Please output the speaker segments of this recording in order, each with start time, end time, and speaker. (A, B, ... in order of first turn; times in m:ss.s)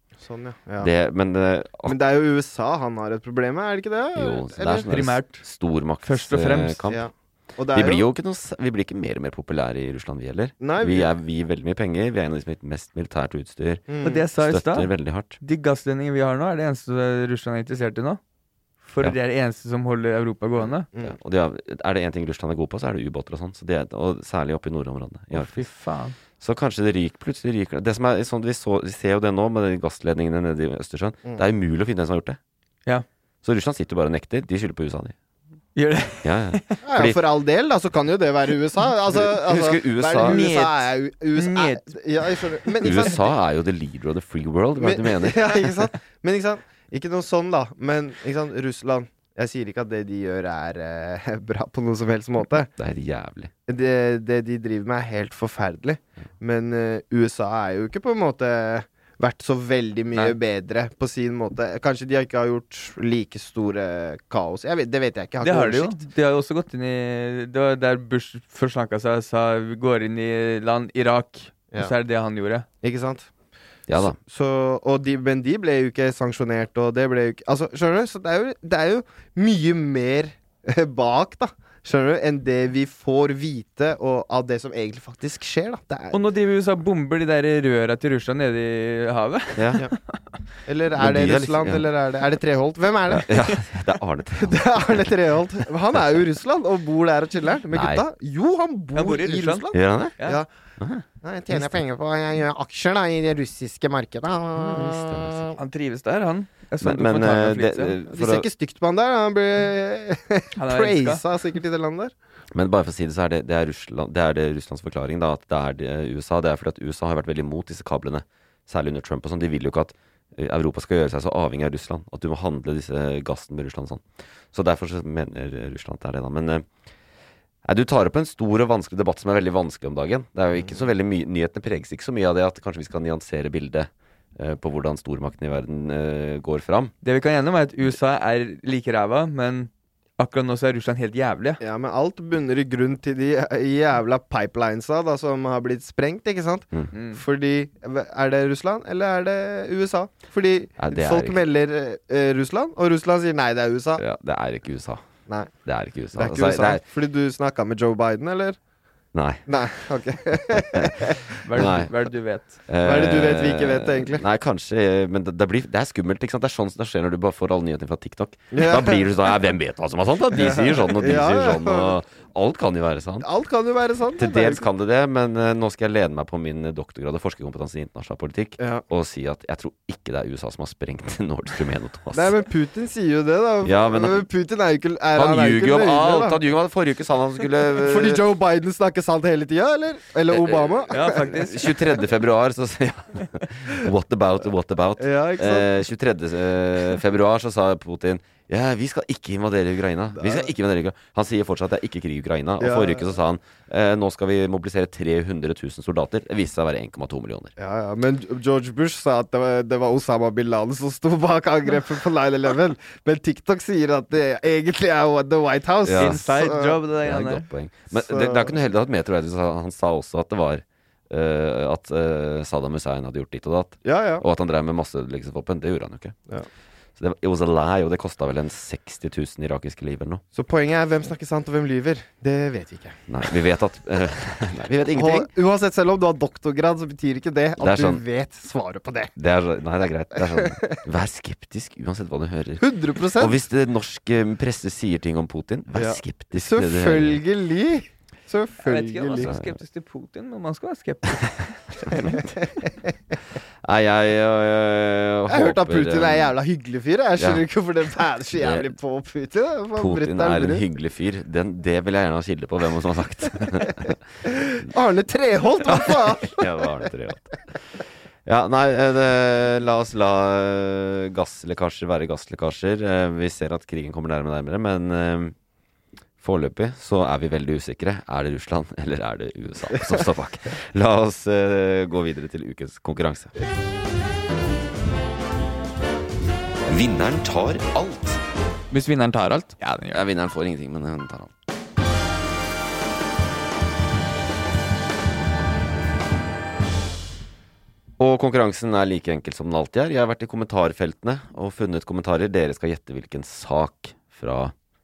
0:00.2-0:00.9 A
0:00.8-0:02.0 B
0:01.9-0:04.9 A
0:04.2-0:07.0 B
0:04.9-0:05.4 C
0:06.0-0:06.8 C
0:06.9-0:08.0 A
0:07.7-0:15.4 B
0:10.6-0:11.1 A
0:13.9-0:14.3 A
0:14.0-0:18.2 C
0:18.8-0:20.9 C
0:21.0-0:25.7 B
0:25.3-0:26.2 C
0:26.4-0:32.4 B
0:33.4-0:35.1 B
0:35.8-0:36.7 C
0:36.2-0:37.2 B
0:36.8-0:43.3 A
0:39.1-0:40.4 B
0:40.2-0:41.9 C
0:42.7-0:43.1 C
0:42.8-0:45.6 B
0:44.8-0:52.7 A
0:52.8-0:53.5 B
0:53.7-1:06.1 A
1:05.4-1:12.7 C
1:12.8-1:13.3 A
1:13.9-1:14.2 B
1:14.0-1:26.2 A
1:26.1-1:30.2 C
1:29.6-1:29.8 B
1:30.7-1:33.5 A
1:30.9-1:31.9 B
1:33.1-1:35.1 B
1:34.4-1:40.5 A
1:37.7-1:38.0 B
1:38.9-1:40.4 C
1:39.7-1:40.2 B
1:40.8-1:41.8 B
1:41.2-1:45.6 A
1:44.6-1:45.5 B
1:45.6-1:48.0 C
1:46.8-1:48.5 B
1:48.1-1:52.1 A
1:50.6-1:51.2 C
1:52.5-2:06.7 B
2:07.6-2:16.9 B
2:17.0-2:21.6 C
2:21.6-2:34.0 A
2:26.9-2:27.2 C
2:30.8-2:31.5 B
2:34.0-2:35.0 B
2:35.6-2:36.8 B
2:36.2-2:38.6 A
2:39.1-2:39.4 B
2:39.5-2:41.4 A
2:40.6-2:41.9 B
2:41.4-2:42.6 C
2:42.7-2:53.3 B
2:42.8-2:44.2 A
2:48.5-2:49.0 A
2:50.3-2:52.0 A
2:53.2-2:54.6 A
2:54.2-3:02.4 B
3:02.1-3:06.4 A
3:03.6-3:04.3 B
3:05.1-3:08.2 B
3:07.7-3:11.6 A
3:10.3-3:27.5 B
3:10.9-3:11.7 C
3:15.0-3:15.7 A
3:20.2-3:20.5 A
3:22.6-3:23.0 A
3:27.6-3:36.8 A
3:35.8-3:36.2 B
3:36.0-3:37.4 C
3:37.0-3:46.2 B
3:37.9-3:38.5 A
3:43.8-3:44.2 A
3:47.0-3:50.2 B
3:50.3-3:53.0 A
3:53.1-3:55.3 B
3:54.9-3:59.1 A
3:57.6-3:58.0 B
3:59.2-4:02.6 B
4:00.3-4:00.8 A
4:02.6-4:03.4 A
4:03.2-4:07.2 B
4:05.8-4:09.3 A
4:08.6-4:12.2 C
4:09.2-4:09.5 B
4:12.0-4:12.7 A
4:13.6-4:16.3 B
4:15.3-4:20.6 A
4:17.2-4:17.4 B
4:18.4-4:18.7 B
4:19.8-4:24.0 B
4:24.4-4:26.8 A
4:25.6-4:27.3 B
4:28.3-4:35.4 B
4:36.2-4:43.3 B
4:46.7-4:48.2 B
4:48.7-4:50.0 C
4:49.9-4:51.3 B
4:58.0-5:04.5 B